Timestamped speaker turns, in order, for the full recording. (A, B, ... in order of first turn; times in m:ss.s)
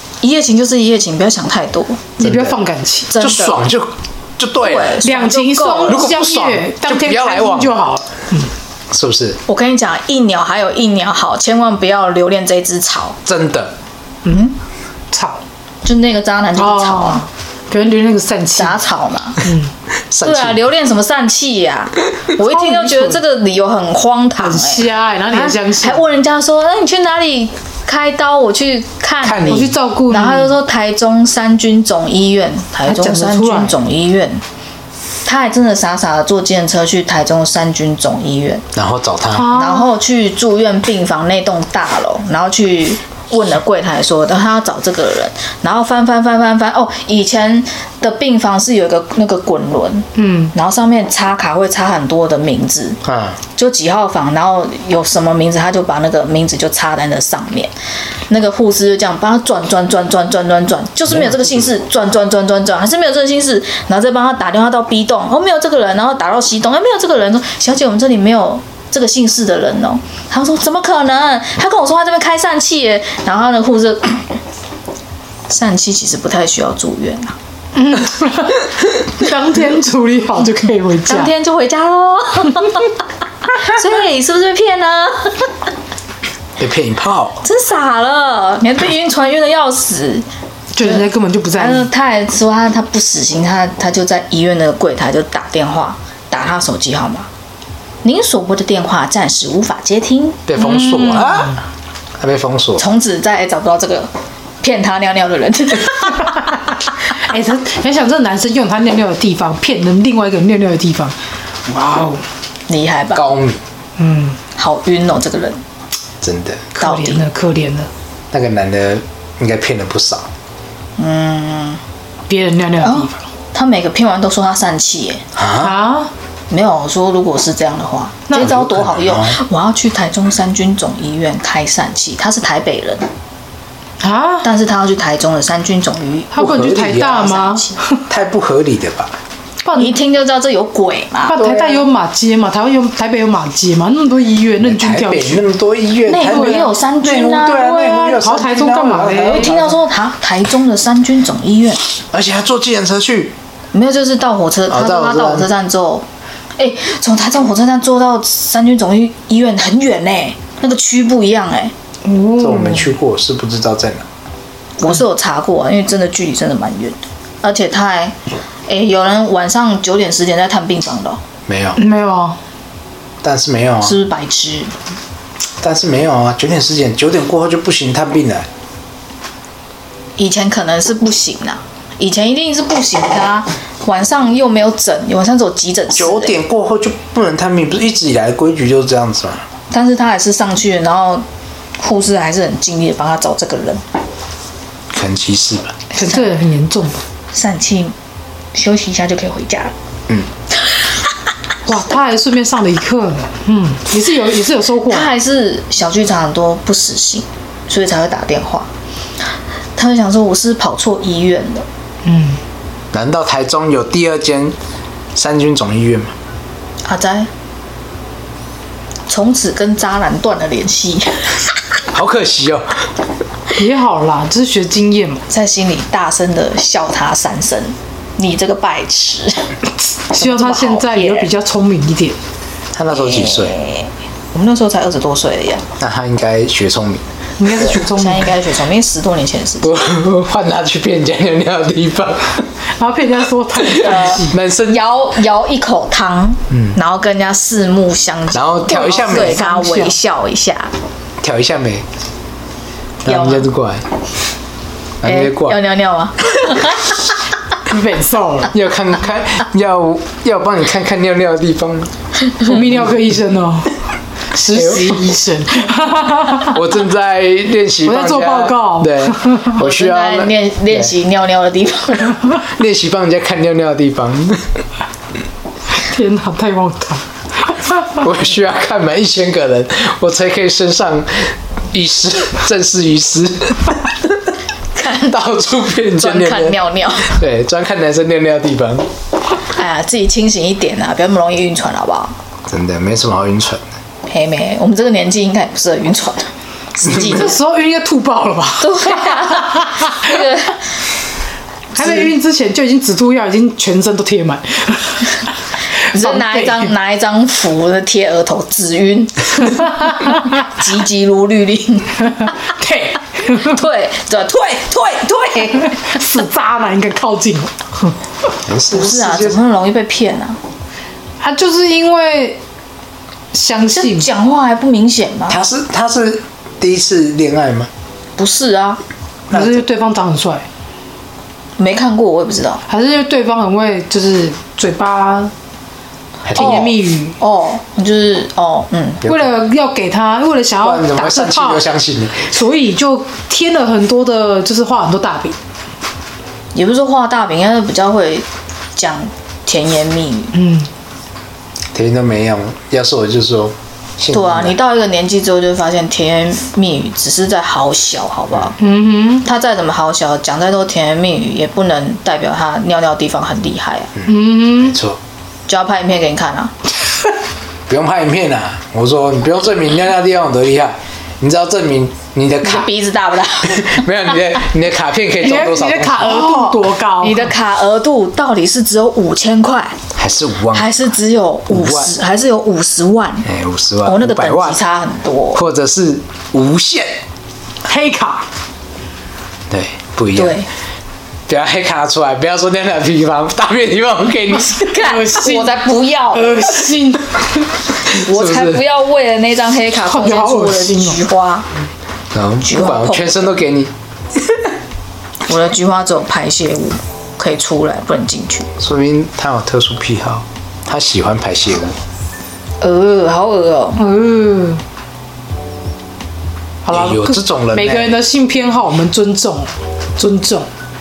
0:00.2-0:02.0 A
0:02.2-0:03.1 B
0:02.2-0:02.6 C
0:03.1-0:03.6 A
0:03.2-0:05.0 C
0:04.6-0:06.1 A
0:05.0-0:08.5 B
0:05.9-0:07.8 C
0:08.9-0:09.4 C
0:09.5-0:13.2 A
0:13.2-0:13.7 C
0:15.1-0:15.4 B
0:15.8-0:17.2 A
0:16.6-0:18.8 B
0:18.6-0:19.4 A
0:19.4-0:19.7 B
0:20.1-0:20.6 C
0:20.2-0:34.4 A
0:22.4-0:23.2 B
0:24.4-0:26.0 B
0:29.2-0:29.7 C
0:29.5-0:30.5 B
0:32.8-0:33.7 B
0:35.2-0:38.6 A
0:38.7-0:39.5 C
0:39.3-0:39.9 B
0:39.5-0:53.0 A
0:50.2-0:50.5 B
0:53.0-0:53.4 C
0:53.5-0:57.7 A
0:58.3-1:14.3 A
1:01.1-1:01.7 C
1:15.5-1:17.4 A
1:17.7-1:21.3 B
1:21.1-1:22.9 A
1:23.5-1:25.5 A
1:26.6-1:27.4 C
1:27.4-1:30.2 A
1:30.7-1:31.9 B
1:30.8-1:37.3 A
1:38.0-1:40.4 A
1:40.4-1:41.6 C
1:40.6-1:41.6 B
1:42.2-1:42.8 C
1:42.8-1:46.7 A
1:47.2-1:51.1 B
1:51.7-1:52.2 B
1:52.7-1:53.2 A
1:53.1-1:53.6 C
1:54.0-1:54.4 B
1:54.6-1:55.6 A
1:56.2-1:56.7 C
1:56.8-1:57.9 B
1:56.8-1:57.2 A
1:58.3-2:00.3 C
2:01.0-2:01.8 A
2:02.3-2:03.3 B
2:02.8-2:05.2 A
2:05.3-2:05.7 C
2:05.6-2:06.1 B
2:06.5-2:13.1 A
2:08.3-2:09.4 C
2:14.0-2:14.4 B
2:14.4-2:16.4 A
2:16.3-2:18.0 B
2:16.4-2:17.3 C
2:17.0-2:17.8 A
2:18.1-2:19.1 C
2:19.6-2:20.0 B
2:19.8-2:21.8 A
2:21.2-2:25.4 B
2:24.6-2:29.8 C
2:26.0-2:27.8 A
2:26.1-2:26.8 B
2:27.4-2:29.5 B
2:29.2-2:31.8 A
2:32.1-2:33.3 C
2:33.7-2:36.0 A
2:34.7-2:35.5 C
2:36.6-2:41.7 A
2:42.0-2:42.9 B
2:42.4-2:44.1 C
2:44.8-2:48.2 A
2:48.7-2:51.2 A
2:51.5-2:51.8 C
2:51.8-2:52.4 B
2:53.2-2:54.0 C
2:53.8-2:54.7 A
2:55.6-2:58.5 C
3:00.2-3:06.4 A
3:05.9-3:09.4 C
3:09.7-3:11.2 A
3:11.8-3:13.8 A
3:14.9-3:15.8 C
3:15.9-3:16.3 A
3:16.0-3:17.0 B
3:17.3-3:18.0 A
3:18.5-3:19.7 A
3:21.6-3:25.1 B
3:24.9-3:28.7 A
3:29.8-3:31.6 A
3:32.0-3:32.4 B
3:32.9-3:34.6 C
3:35.1-3:36.1 C
3:36.8-3:37.3 A
3:39.1-3:41.3 A
3:41.9-3:42.8 C
3:43.5-3:45.2 B
3:45.3-3:49.5 A
3:50.1-3:52.2 B
3:50.2-3:51.3 A
3:52.7-3:53.6 C
3:52.9-3:55.7 A
3:55.8-3:57.0 C
3:57.4-3:58.3 B
3:57.5-3:59.7 A
3:59.6-4:02.5 C
4:02.8-4:04.3 B
4:03.8-4:10.7 A
4:04.2-4:04.8 C
4:06.5-4:06.8 C
4:08.3-4:09.5 C
4:08.8-4:09.9 B
4:11.2-4:11.8 C
4:13.0-4:13.8 C
4:13.0-4:13.5 A
4:15.0-4:15.6 C
4:15.0-4:17.0 A
4:17.7-4:18.5 B
4:18.5-4:21.9 C
4:22.4-4:23.7 B
4:24.3-4:26.6 B
4:24.5-4:25.0 C
4:26.5-4:30.9 C
4:27.8-4:29.5 B
4:29.6-4:32.2 A
4:32.5-4:34.4 C
4:35.7-4:38.0 B
4:38.0-4:44.1 C
4:44.7-4:45.2 A
4:45.1-4:48.9 C
4:46.0-4:47.2 A
4:49.5-4:52.1 A
4:52.5-4:53.6 C
4:54.1-4:57.4 A
4:56.9-5:00.1 B
4:58.6-5:00.6 A
5:01.7-5:05.2 B
5:05.9-5:12.3 A
5:05.9-5:06.7 B
5:12.5-5:13.5 B
5:13.3-5:15.8 A
5:15.6-5:17.5 B
5:18.4-5:19.4 C
5:18.6-5:20.4 A
5:21.2-5:22.4 B
5:23.3-5:24.1 B
5:23.7-5:25.4 A
5:25.3-5:27.7 C
5:28.2-5:28.8 A
5:29.3-5:29.6 C
5:29.3-5:30.4 B
5:31.6-5:32.6 A
5:32.7-5:35.3 B
5:36.2-5:36.7 C
5:36.3-5:37.2 B
5:36.3-5:39.0 A
5:39.0-5:45.4 B
5:40.6-5:42.3 C
5:46.5-5:50.4 A
5:50.3-5:50.7 B
5:51.7-5:54.6 C
5:54.1-5:58.6 A
5:58.6-5:59.2 B
5:59.2-6:03.9 A
6:04.0-6:05.0 C
6:04.1-6:04.8 B
6:05.5-6:06.5 A
6:07.7-6:12.7 C
6:12.4-6:13.9 A
6:13.5-6:16.3 C
6:15.2-6:17.3 B
6:16.0-6:19.8 A
6:19.9-6:20.7 C
6:20.5-6:23.3 A
6:21.5-6:21.9 C
6:23.2-6:24.6 C
6:23.8-6:25.4 A
6:25.3-6:26.9 C
6:27.6-6:28.2 B
6:29.5-6:30.4 C
6:30.1-6:30.5 A
6:31.3-6:34.6 C
6:34.5-6:36.4 A
6:34.7-6:37.4 B
6:37.9-6:41.5 A
6:38.0-6:38.6 C
6:39.8-6:41.0 B
6:42.1-6:43.7 C
6:42.4-6:43.4 A
6:45.3-6:48.5 A
6:48.6-6:51.8 C
6:52.6-6:53.8 A
6:53.8-6:54.6 B
6:56.6-7:00.5 B
6:56.7-6:58.0 C